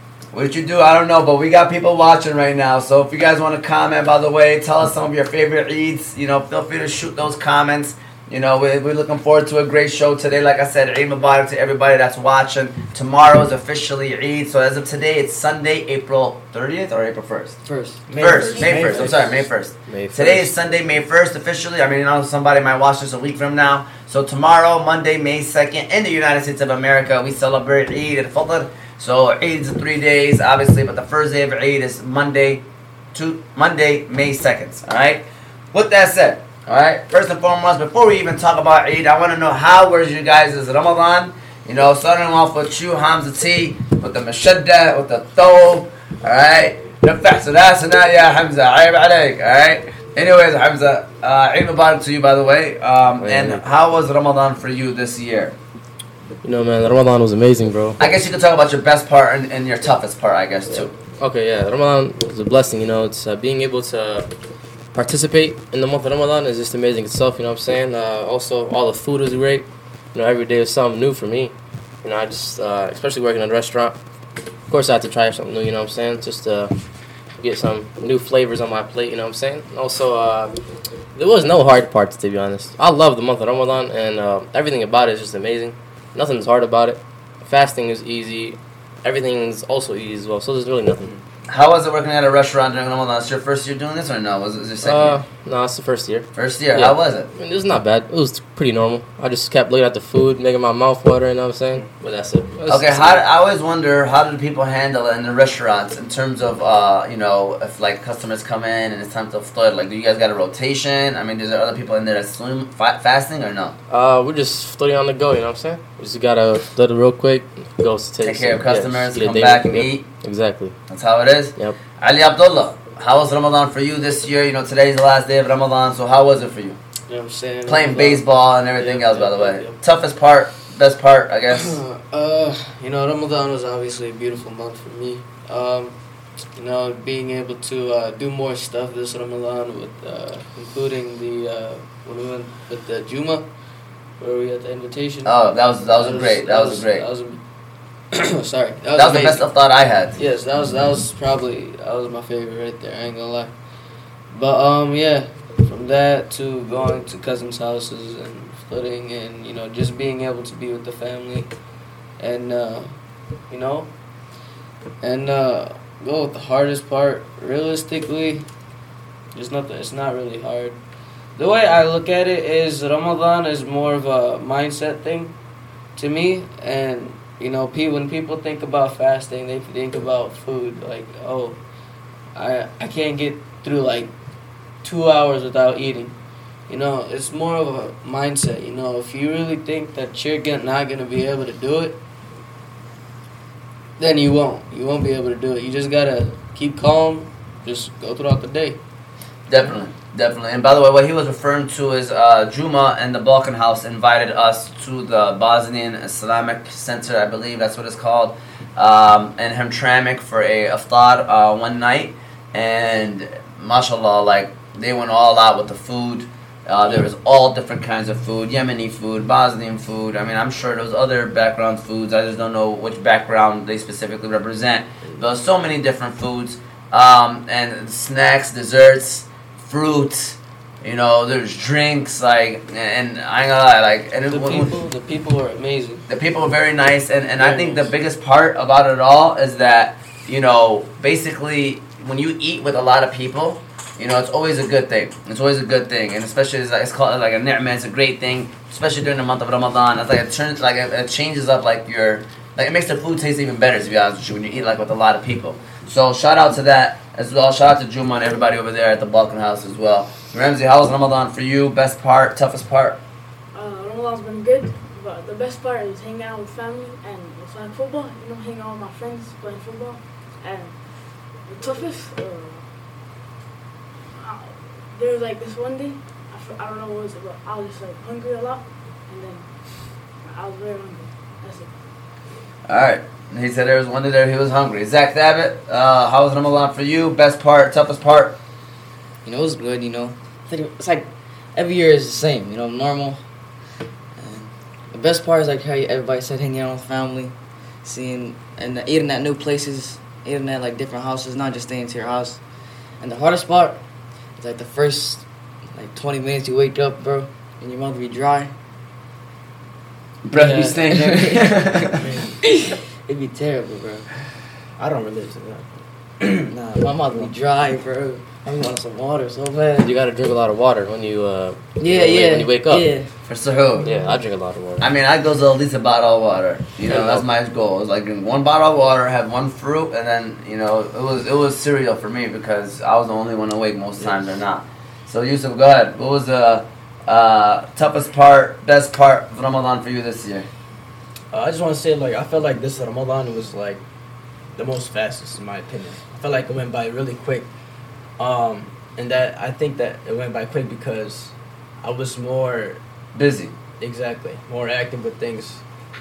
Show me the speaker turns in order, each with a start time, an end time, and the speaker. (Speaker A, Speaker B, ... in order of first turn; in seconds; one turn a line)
Speaker A: 0.3-17.6
Speaker B: 17.6-18.0
Speaker C: 18.1-19.5
Speaker A: 18.2-55.5
Speaker D: 18.6-19.1
Speaker E: 19.9-20.5
Speaker E: 53.2-53.6
Speaker E: 56.4-58.0
Speaker A: 58.0-60.9
Speaker E: 60.7-64.3
Speaker E: 64.9-74.0
Speaker E: 74.7-76.7
Speaker E: 77.4-80.5
Speaker E: 81.1-91.1
Speaker A: 91.5-95.2
Speaker E: 94.8-103.2
Speaker A: 96.3-97.3
Speaker A: 102.7-113.8
Speaker E: 113.9-120.8
Speaker A: 118.2-120.1
Speaker A: 120.9-126.8
Speaker D: 127.1-129.8
Speaker A: 127.7-131.8
Speaker D: 131.5-135.9
Speaker D: 136.5-143.5
Speaker D: 144.2-145.3
Speaker A: 145.2-147.1
Speaker D: 145.9-147.4
Speaker D: 148.1-149.5
Speaker A: 148.9-150.2
Speaker D: 150.2-153.5
Speaker D: 154.3-161.5
Speaker D: 162.2-163.0
Speaker D: 163.5-163.9
Speaker D: 165.0-168.5
Speaker D: 169.3-170.8
Speaker D: 171.3-175.3
Speaker D: 175.9-181.6
Speaker D: 182.3-184.1
Speaker D: 184.8-186.2
Speaker D: 186.7-192.0
Speaker D: 194.0-198.8
Speaker A: 199.5-234.8
Speaker D: 234.3-236.1
Speaker A: 236.1-263.0
Speaker D: 237.4-237.9
Speaker F: 263.5-270.8
Speaker F: 271.5-272.6
Speaker F: 274.1-279.5
Speaker F: 280.2-281.7
Speaker A: 282.7-288.4
Speaker B: 289.2-293.2
Speaker B: 294.2-302.4
Speaker B: 303.0-303.8
Speaker B: 304.4-308.5
Speaker A: 310.2-312.0
Speaker D: 310.3-310.9
Speaker B: 310.9-311.6
Speaker C: 311.9-312.4
Speaker B: 312.4-314.1
Speaker C: 314.8-316.5
Speaker B: 316.5-319.9
Speaker E: 319.8-322.9
Speaker B: 321.8-323.1
Speaker A: 323.3-323.9
Speaker E: 323.8-324.9
Speaker A: 324.8-340.5
Speaker E: 326.9-327.2
Speaker C: 341.3-343.8
Speaker C: 344.6-347.5
Speaker C: 348.2-352.8
Speaker A: 353.1-353.5
Speaker C: 353.8-355.6